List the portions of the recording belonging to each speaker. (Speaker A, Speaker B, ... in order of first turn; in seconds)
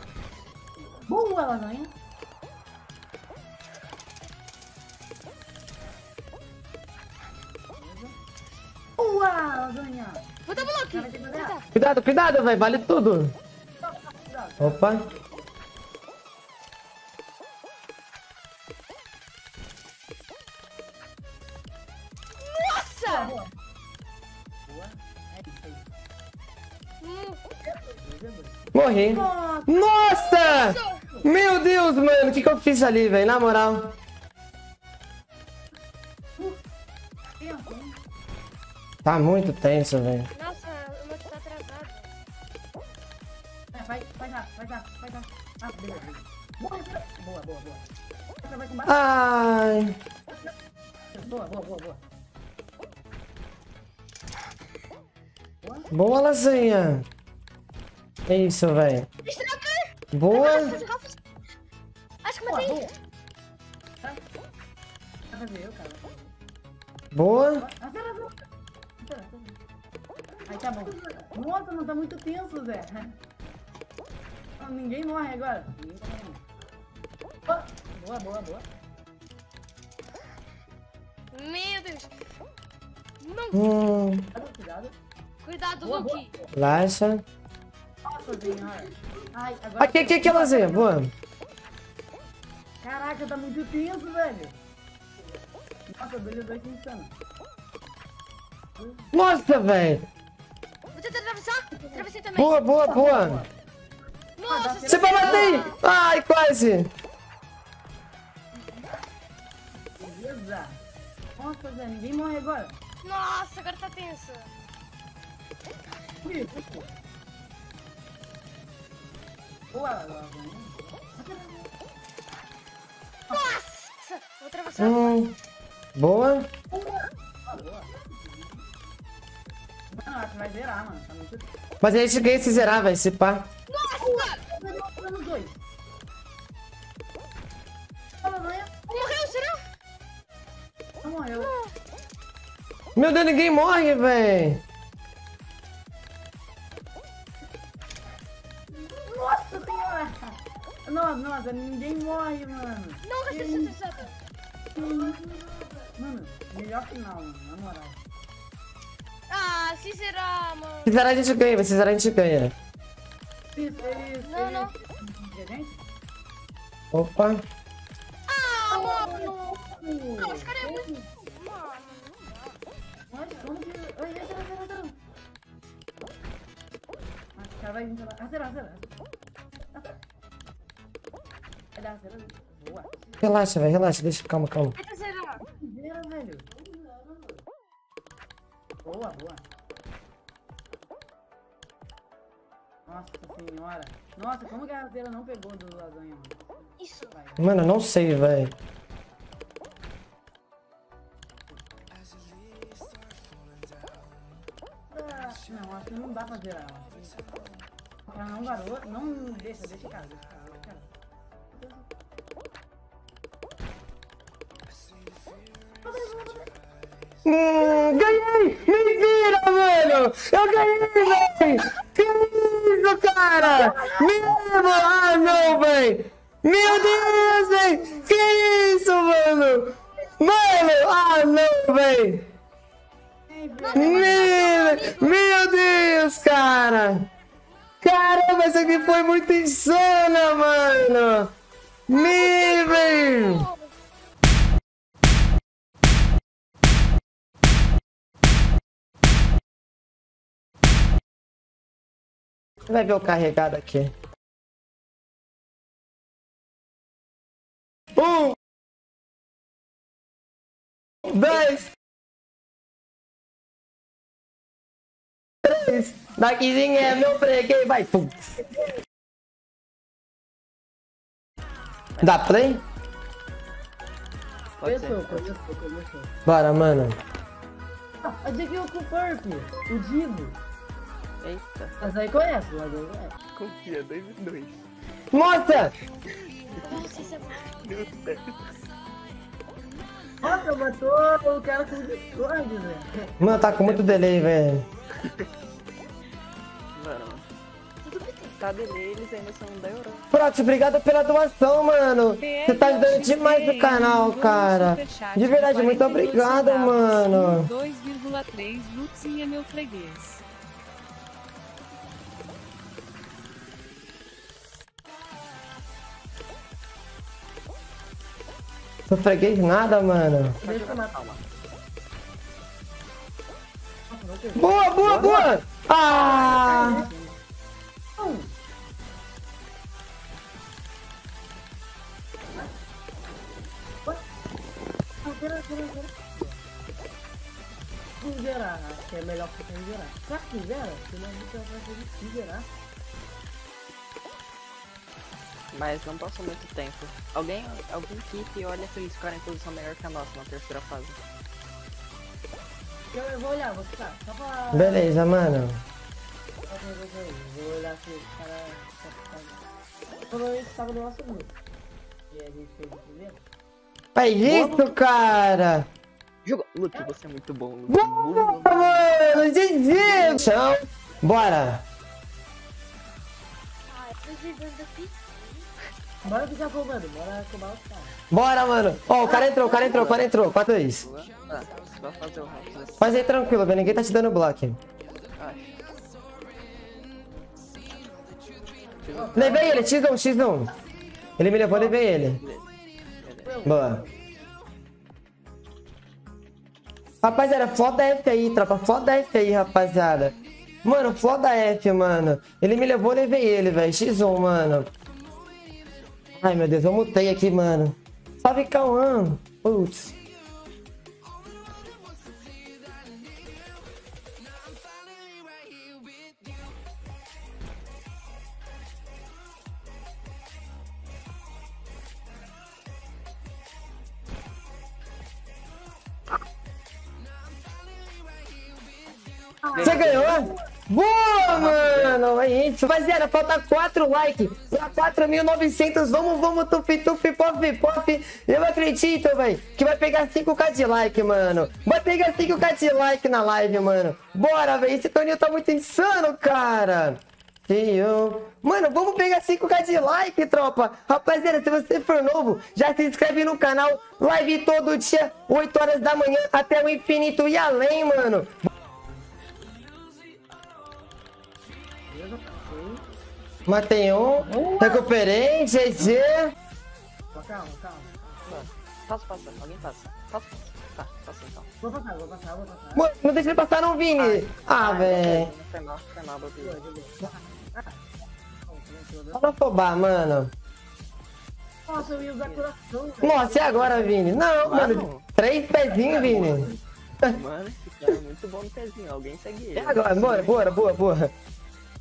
Speaker A: 0.9-1.9, 7.8-8.2, 9.0-11.6, 13.8-15.5, 23.1-23.5, 24.7-25.9, 27.7-29.9, 37.4-38.0, 43.7-47.9, 48.4-49.0, 51.1-52.0, 55.6-55.9, 62.5-62.9, 65.3-66.3, 67.6-68.3, 69.0-69.6, 70.5-73.2, 74.6-76.4, 77.5-78.7, 84.3-85.0, 85.8-86.5, 88.0-91.0, 92.8-94.6, 95.9-97.1, 98.8-99.1, 102.9-103.5, 104.5-105.7, 110.0-110.8, 111.4-112.8, 116.2-117.0, 119.7-121.7, 126.7-128.6, 129.9-131.4, 132.3-132.7, 134.0-135.6, 138.2-138.7, 141.0-141.6, 148.8-153.8, 154.7-158.0, 163.5-165.8, 168.7-171.0, 173.1-175.0, 177.4-178.9, 181.8-183.2, 185.6-186.9, 188.8-189.4, 192.9-197.7, 204.9-207.3, 208.1-210.9, 211.5-211.9, 215.8-216.5, 223.4-224.1, 233.3-234.5, 274.6-276.1, 278.0-280.4, 281.8-283.1, 290.2-293.2, 320.4-321.1, 323.9-325.1, 326.3-326.9, 328.0-328.3, 335.0-336.4, 338.0-342.5, 352.9-355.0, 356.5-359.4, 360.1-361.4, 362.1-363.2, 369.8-370.3, 376.0-378.0, 379.0-379.9, 388.9-389.7, 393.2-394.1, 429.5-430.1, 461.9-462.8, 464.2-464.9, 467.1-468.5, 471.6-472.9, 476.4-477.9, 478.4-479.3, 481.7-484.1
Speaker B: 10.5-11.7, 22.4-23.4, 27.0-27.4, 30.1-31.0, 40.4-42.1, 59.2-61.2, 62.2-62.9, 81.3-82.1, 83.2-83.6, 85.4-86.3, 100.9-103.0, 104.4-105.8, 113.0-114.5, 123.3-125.2, 133.7-134.4, 138.9-139.6, 141.4-141.7, 153.0-154.1, 159.3-161.0, 164.2-164.7, 168.3-169.6, 170.2-172.6, 184.8-185.4, 224.4-225.6, 226.6-227.8, 233.6-235.2, 241.9-243.7, 286.6-287.6, 297.8-298.4, 373.7-375.2, 379.2-379.7
Speaker C: 11.7-13.3, 14.6-15.0, 28.7-34.0, 39.0-40.3, 48.9-50.0, 55.9-57.0, 58.3-59.1, 60.1-60.8, 67.1-67.6, 83.5-84.3, 86.6-87.2, 89.8-91.1, 99.1-100.0, 102.3-103.4, 104.9-106.9, 124.8-125.3, 126.0-126.5, 131.8-133.5, 143.0-144.6, 160.8-162.5, 166.9-167.4, 183.2-184.8, 197.4-198.5, 217.2-232.3, 233.7-237.1, 237.8-241.3, 241.9-243.5, 252.7-253.9, 258.0-258.4, 261.1-261.7, 265.4-268.4, 272.0-272.6, 276.3-277.0, 285.1-285.7, 293.2-294.7, 300.1-307.5, 318.9-320.4, 324.4-326.8, 354.5-355.6, 363.9-365.7, 367.7-371.6, 378.1-380.9, 382.8-384.6, 389.1-390.5, 391.2-392.2, 393.4-393.8, 397.0-404.7, 406.2-409.9, 429.6-458.3, 463.5-466.3, 472.8-475.3, 479.1-480.3, 483.0-486.5, 489.6-491.1
Speaker D: 274.6-275.3, 281.2-281.8, 283.4-284.6, 287.6-288.4, 293.2-294.1, 296.8-297.3, 298.4-300.1, 320.4-321.2, 324.8-325.3, 325.9-327.1, 345.5-351.0, 364.2-364.8, 366.2-369.2, 379.5-380.1, 380.8-383.0, 385.2-385.6, 388.9-389.7, 391.5-392.5, 393.0-393.3, 429.5-430.2, 431.3-432.0, 468.3-471.5, 474.0-476.6, 481.7-482.5, 484.4-485.1, 485.8-486.5, 487.1-490.6
Speaker E: 302.2-310.2